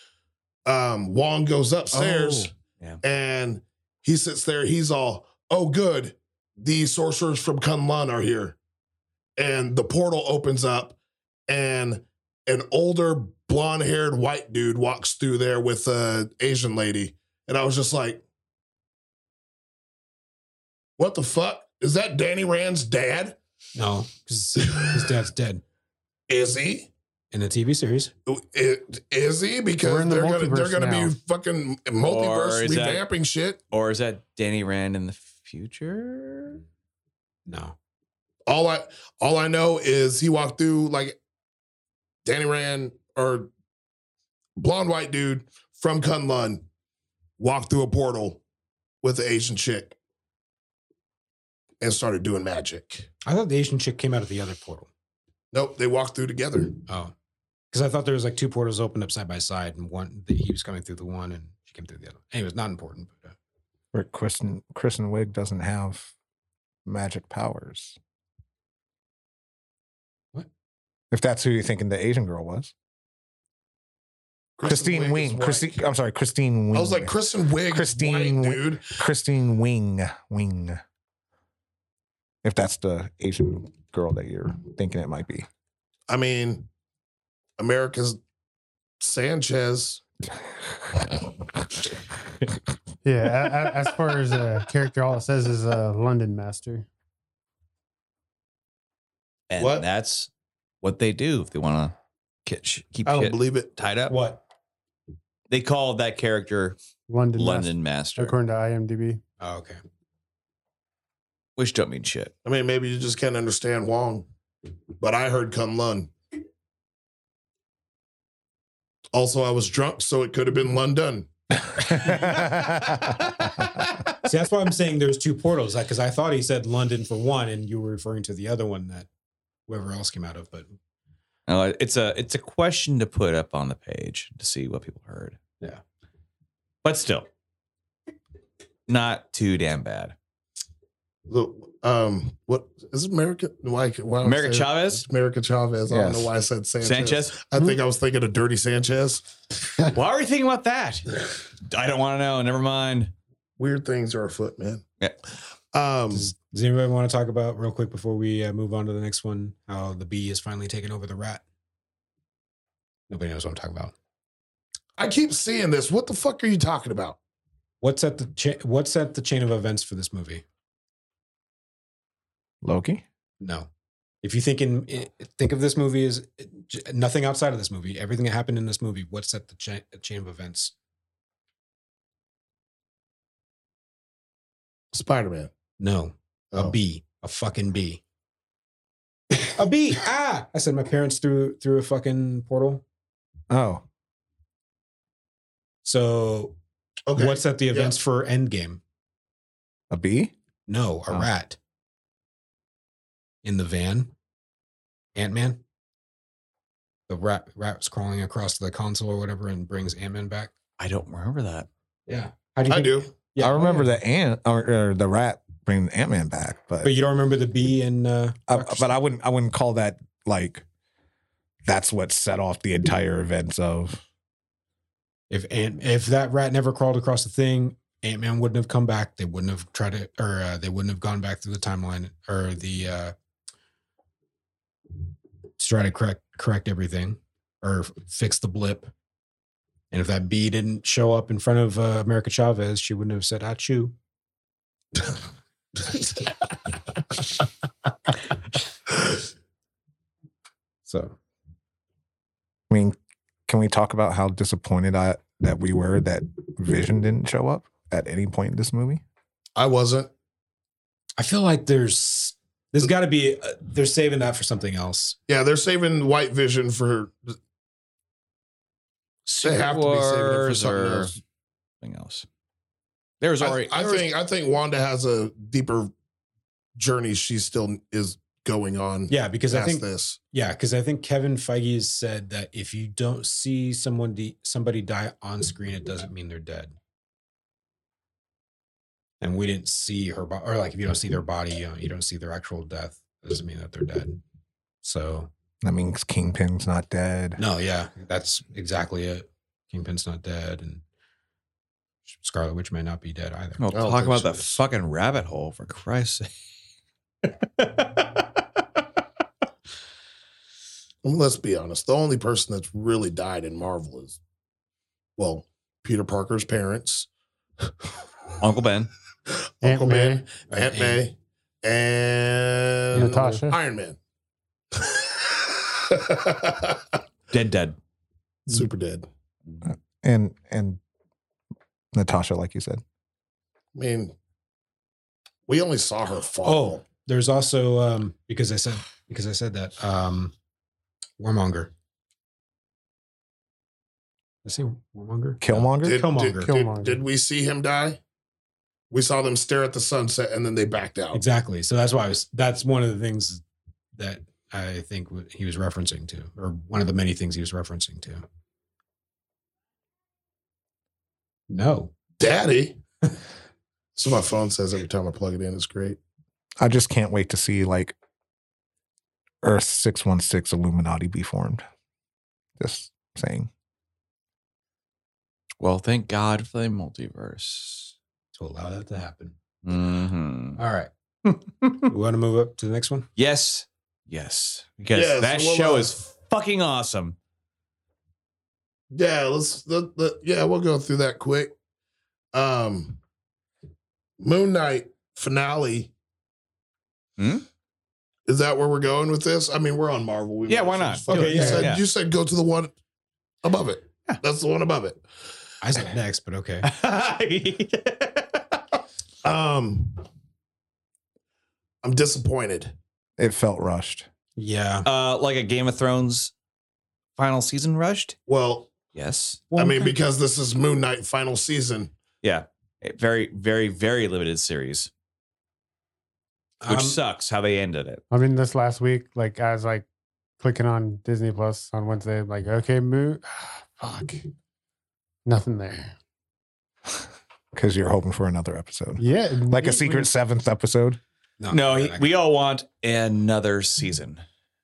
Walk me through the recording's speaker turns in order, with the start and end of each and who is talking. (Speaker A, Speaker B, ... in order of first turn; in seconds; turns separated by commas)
Speaker A: 0.6-2.5, Speaker A: 3.0-8.6, Speaker A: 9.4-11.0, Speaker A: 11.5-18.2, Speaker A: 21.0-23.4, Speaker B: 23.7-25.6, Speaker A: 26.3-26.9, Speaker B: 27.3-28.1, Speaker A: 28.3-33.6, Speaker C: 29.8-31.1, Speaker D: 32.0-33.0, Speaker D: 33.7-36.6, Speaker B: 37.5-37.8, Speaker A: 38.5-41.2, Speaker A: 42.2-43.5, Speaker A: 44.6-46.6, Speaker A: 47.4-48.4, Speaker A: 49.0-50.0, Speaker A: 51.8-53.1, Speaker B: 53.2-54.9, Speaker A: 55.5-56.7, Speaker B: 56.9-57.1, Speaker B: 57.7-63.4, Speaker E: 63.9-66.1, Speaker E: 66.8-68.0, Speaker E: 71.1-72.7, Speaker A: 74.6-75.8, Speaker E: 74.6-80.8, Speaker A: 76.7-78.9, Speaker E: 82.4-85.5, Speaker A: 86.1-86.7, Speaker A: 87.6-88.2, Speaker A: 89.0-90.0, Speaker C: 93.0-96.8, Speaker D: 99.5-100.3, Speaker A: 99.6-99.8, Speaker D: 100.8-101.9, Speaker D: 102.5-104.2, Speaker A: 103.0-103.7, Speaker B: 104.1-104.4, Speaker D: 105.5-106.8, Speaker C: 107.1-109.2, Speaker D: 107.3-108.3, Speaker B: 109.4-109.8, Speaker D: 111.6-112.3, Speaker A: 112.4-114.3, Speaker A: 115.0-116.1, Speaker A: 119.1-121.3, Speaker E: 121.8-123.0, Speaker A: 121.9-122.2, Speaker D: 122.1-124.0, Speaker B: 124.2-129.1, Speaker B: 129.7-130.7, Speaker D: 131.5-135.4, Speaker D: 136.8-137.3, Speaker D: 138.9-140.1, Speaker A: 141.3-149.2, Speaker D: 144.2-145.0, Speaker E: 145.9-146.3, Speaker D: 146.8-147.4, Speaker D: 149.8-153.1, Speaker A: 153.6-154.8, Speaker A: 155.7-156.3, Speaker B: 156.1-161.4, Speaker B: 163.1-163.9, Speaker A: 165.0-167.2, Speaker B: 167.8-170.4, Speaker E: 172.6-173.0, Speaker B: 173.4-173.7, Speaker B: 174.2-180.7, Speaker A: 184.9-185.5, Speaker B: 185.8-188.0, Speaker B: 189.5-192.8, Speaker E: 193.5-193.8, Speaker B: 195.8-196.6, Speaker A: 197.1-198.0, Speaker B: 197.1-198.8, Speaker E: 199.9-200.3, Speaker B: 200.7-201.6, Speaker B: 203.4-204.1, Speaker B: 205.1-205.6, Speaker B: 207.1-210.5, Speaker D: 210.8-211.7, Speaker B: 212.1-213.9, Speaker A: 212.7-213.1, Speaker E: 213.4-216.9, Speaker B: 216.8-218.9, Speaker E: 218.5-220.6, Speaker E: 221.7-224.0, Speaker B: 225.3-233.1, Speaker B: 235.6-238.9, Speaker B: 239.9-243.9, Speaker B: 250.8-251.2, Speaker E: 252.7-252.9, Speaker E: 253.5-259.0, Speaker A: 259.5-260.1, Speaker B: 261.2-265.2, Speaker A: 265.3-267.4, Speaker D: 269.2-271.1, Speaker A: 269.4-271.2, Speaker D: 271.8-272.2, Speaker D: 273.2-274.1, Speaker A: 273.4-275.9, Speaker A: 276.8-280.2, Speaker B: 279.1-286.7, Speaker B: 289.2-294.2, Speaker B: 294.8-295.3, Speaker E: 295.6-297.4, Speaker B: 297.4-300.8, Speaker B: 302.1-303.6, Speaker D: 303.6-306.3, Speaker A: 303.7-304.6, Speaker D: 307.2-308.1, Speaker A: 311.0-314.2, Speaker A: 315.2-317.1, Speaker D: 318.4-318.9, Speaker A: 319.3-324.0, Speaker C: 319.6-320.2, Speaker B: 320.5-321.0, Speaker B: 322.9-323.2, Speaker C: 322.9-323.6, Speaker A: 324.7-326.9, Speaker D: 327.3-327.8, Speaker A: 328.5-329.1, Speaker E: 329.6-330.8, Speaker E: 331.9-332.8, Speaker A: 333.7-334.1, Speaker A: 335.5-336.8, Speaker B: 336.4-340.3, Speaker B: 341.2-341.7, Speaker B: 344.4-346.6, Speaker E: 345.4-346.0, Speaker A: 345.8-348.0, Speaker C: 346.4-347.0, Speaker A: 348.9-351.2, Speaker B: 351.1-353.4, Speaker B: 353.9-358.2, Speaker B: 361.5-361.9, Speaker A: 362.2-362.8, Speaker A: 363.9-366.0, Speaker E: 366.6-367.9, Speaker E: 369.4-371.6, Speaker E: 372.6-373.5, Speaker D: 375.6-377.9, Speaker B: 378.3-379.4, Speaker D: 379.6-380.6, Speaker B: 380.6-380.9, Speaker B: 381.8-383.1, Speaker D: 383.1-387.1, Speaker A: 384.9-385.9, Speaker A: 388.9-391.5, Speaker A: 392.3-393.0, Speaker A: 394.2-395.9, Speaker D: 397.2-397.4, Speaker A: 398.3-402.7, Speaker D: 400.5-401.8, Speaker B: 401.1-401.8, Speaker A: 403.4-405.0, Speaker B: 405.6-406.7, Speaker D: 406.6-408.6, Speaker A: 409.2-410.1, Speaker A: 411.8-412.7, Speaker E: 413.2-414.1, Speaker B: 414.4-414.9, Speaker D: 414.8-416.3, Speaker D: 417.2-418.2, Speaker A: 418.3-418.7, Speaker D: 418.9-419.4, Speaker B: 419.5-419.9, Speaker A: 419.5-421.9, Speaker D: 422.2-424.9, Speaker B: 426.6-427.0, Speaker D: 426.7-428.0, Speaker C: 428.1-429.9, Speaker C: 430.4-434.2, Speaker C: 435.2-435.9, Speaker E: 437.5-441.0, Speaker C: 439.0-440.1, Speaker B: 441.4-442.1, Speaker D: 441.5-444.2